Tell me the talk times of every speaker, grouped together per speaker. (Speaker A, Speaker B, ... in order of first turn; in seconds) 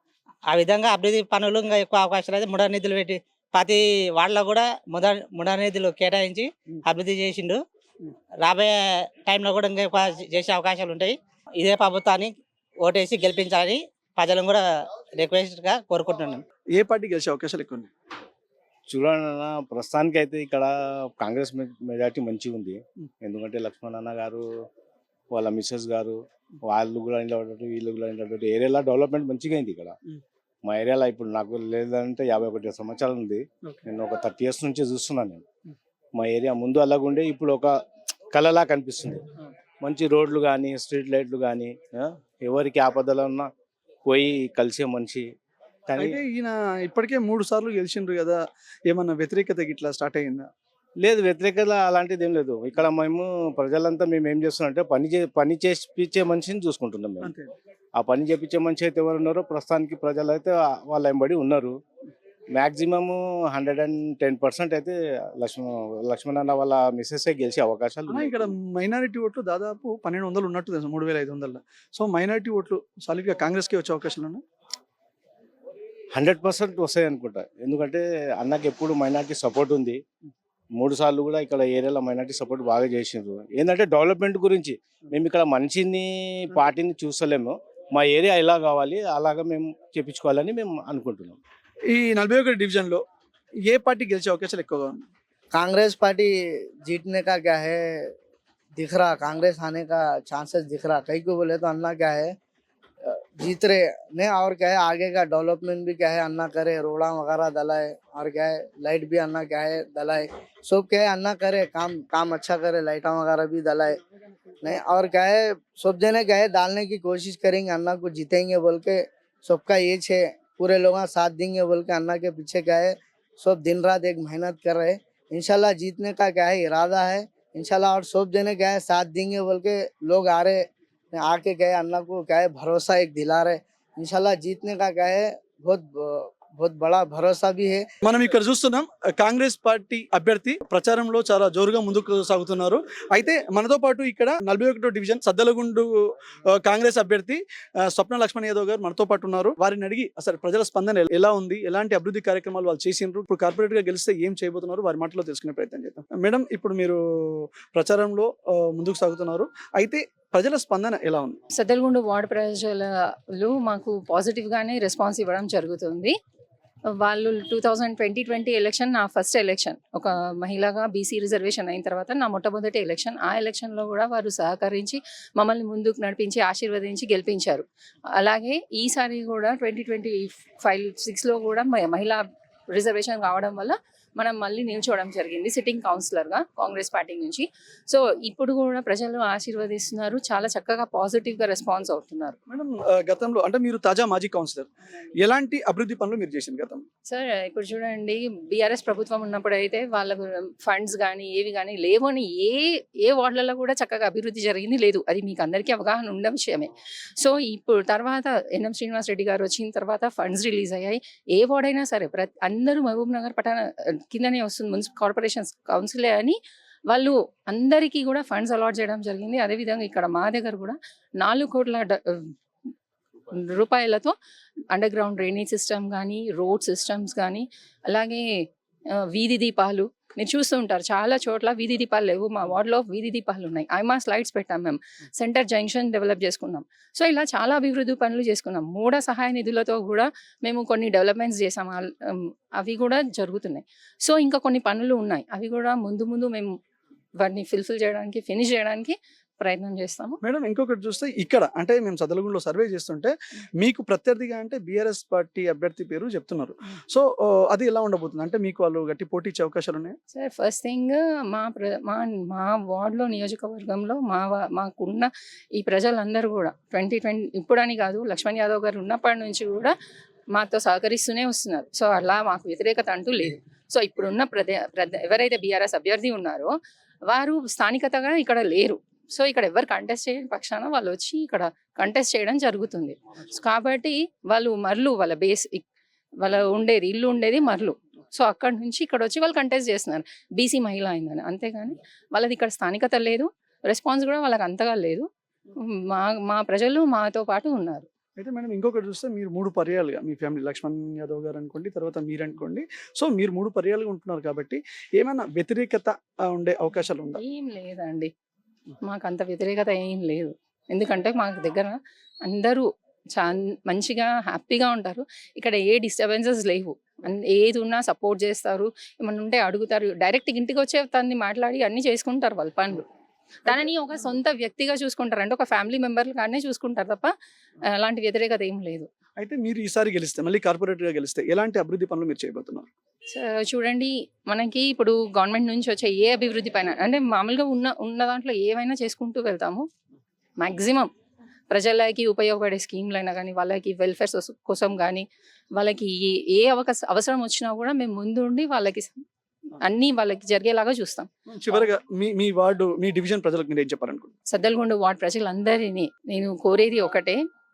Speaker A: 0.5-7.6, 8.4-14.6, 15.2-16.4
Speaker B: 16.8-17.9, 46.0-50.5, 57.2-57.5, 68.1-74.4, 91.9-93.0, 93.7-95.0, 138.0-161.4, 192.5-194.7, 195.2-196.8, 250.2-260.0, 298.2-307.2, 329.2-332.7, 351.3-354.1
Speaker C: 18.9-24.4, 25.3-30.0, 30.7-35.5, 36.2-37.7, 38.3-39.2, 39.8-43.5, 44.1-45.3, 45.9-46.2, 51.0-57.3, 58.0-61.7, 62.5-68.5, 76.2-80.0, 80.8-91.4
Speaker D: 95.5-96.3, 96.8-98.1, 98.8-102.3, 103.1-114.0, 114.6-137.8
Speaker E: 161.6-166.2, 167.0-177.7, 178.2-192.4, 197.1-216.4, 216.9-222.3, 223.3-224.1, 224.7-228.3, 229.1-246.5, 247.2-250.2, 260.1-269.7, 270.3-276.5, 277.1-285.6, 286.2-295.1, 295.8-297.9, 307.1-308.1, 308.8-322.8, 323.5-327.1, 327.8-328.9, 333.1-339.7, 340.4-340.9, 341.5-345.1, 345.6-349.0, 349.6-351.1, 354.3-357.2